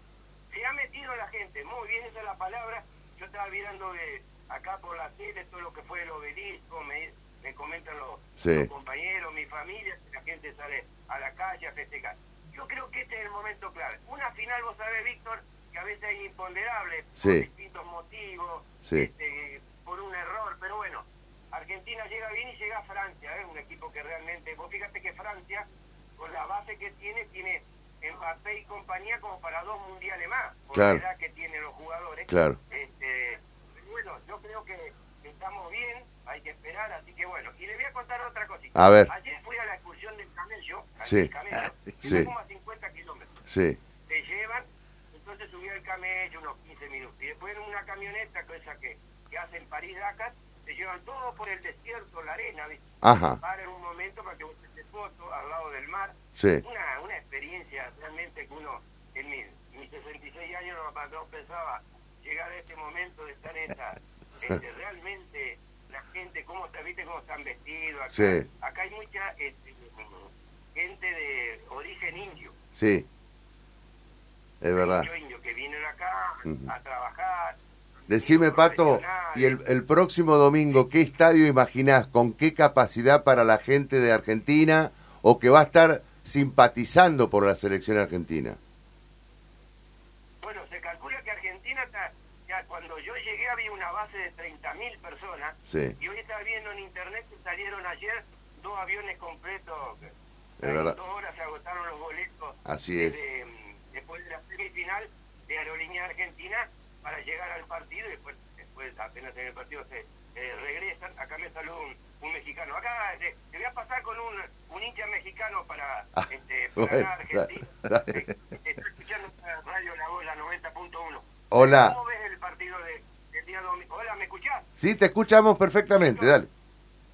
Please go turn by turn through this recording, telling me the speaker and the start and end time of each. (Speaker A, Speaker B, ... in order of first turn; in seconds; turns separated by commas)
Speaker A: 0.5-43.3, Speaker B: 8.4-8.7, Speaker B: 17.2-17.4, Speaker B: 30.7-31.0, Speaker B: 32.3-32.6, Speaker B: 38.7-39.1, Speaker B: 41.0-41.3, Speaker B: 42.0-42.3, Speaker B: 43.5-43.8, Speaker A: 44.1-72.5, Speaker B: 53.0-53.4, Speaker B: 56.4-56.6, Speaker B: 68.1-68.4, Speaker B: 72.7-73.1, Speaker B: 74.6-75.1, Speaker A: 74.8-79.6, Speaker B: 76.5-76.7, Speaker B: 78.1-88.6, Speaker A: 90.4-124.7, Speaker B: 95.7-96.0, Speaker B: 100.6-101.0, Speaker B: 102.7-103.2, Speaker B: 116.8-118.2, Speaker B: 121.5-122.0, Speaker B: 124.8-126.5, Speaker A: 126.0-126.4